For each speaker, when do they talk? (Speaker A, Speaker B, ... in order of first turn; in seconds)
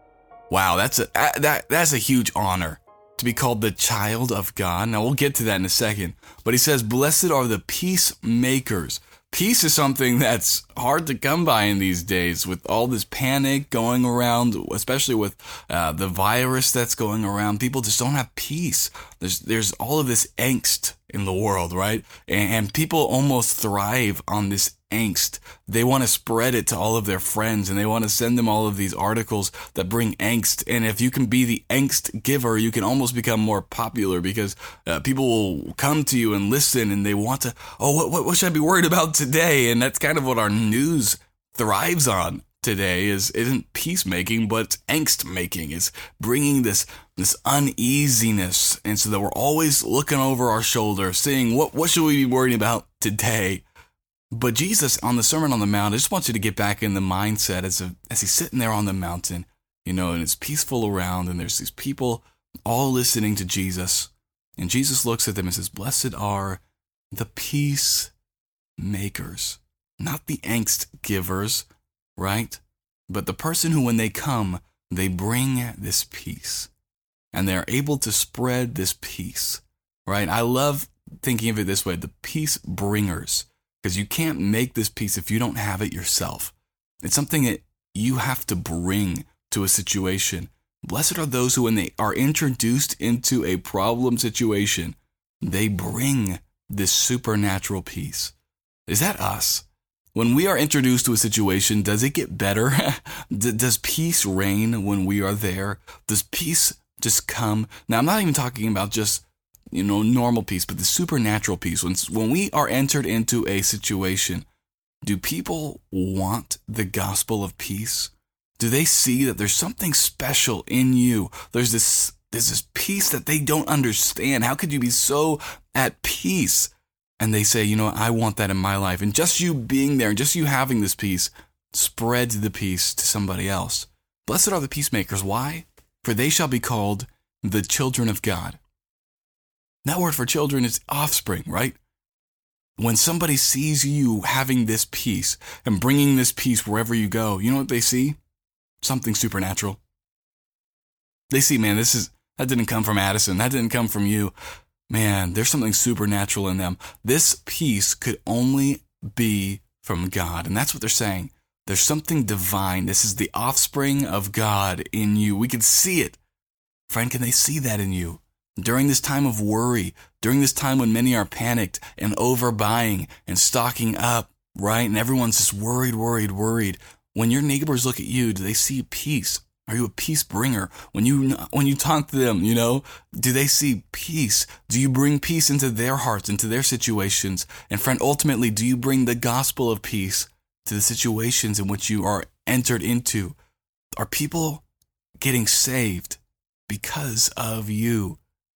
Speaker A: 0.5-53.6, 54.3-66.6, 67.1-68.1, 68.8-76.7, 77.3-98.3, 98.9-114.5, 115.0-138.6, 139.8-141.8, 142.8-148.2, 148.8-149.8, 151.3-154.3, 154.9-166.2, 166.9-193.4, 194.0-194.6, 195.2-198.2